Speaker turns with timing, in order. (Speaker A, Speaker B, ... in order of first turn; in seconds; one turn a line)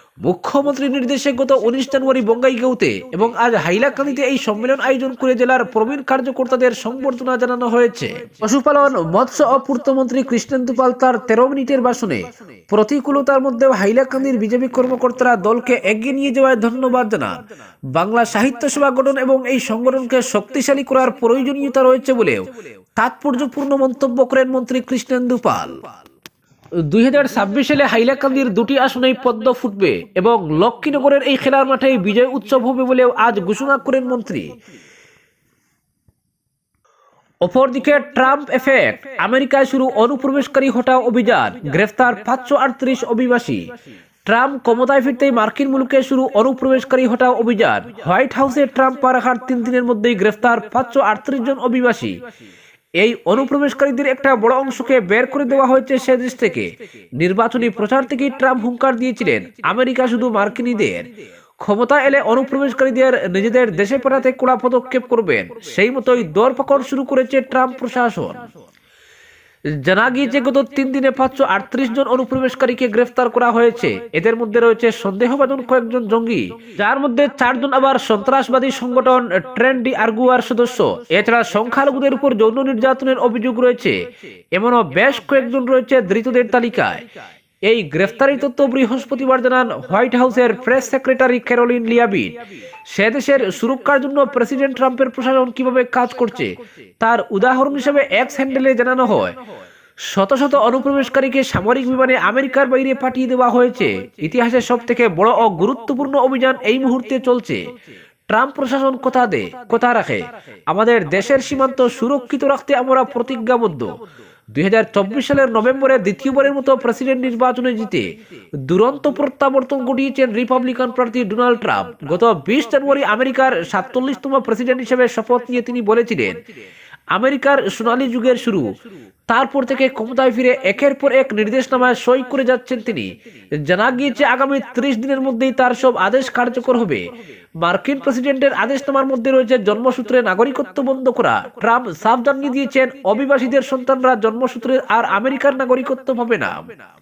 Speaker A: 0.2-17.4
Speaker A: 17.9-25.8
Speaker A: 26.9-34.6
Speaker A: 37.4-43.7
Speaker A: 44.2-52.2
Speaker A: 53.0-61.1
Speaker A: 61.6-68.5
Speaker A: 69.8-84.0
Speaker A: 84.5-87.0
Speaker A: 87.7-99.4
Speaker A: 100.1-107.6
Speaker A: 108.3-113.9
Speaker A: 114.5-118.1
Speaker A: 118.6-126.4
Speaker A: 127.1-128.7
Speaker A: 129.3-137.1
Speaker A: 137.6-146.8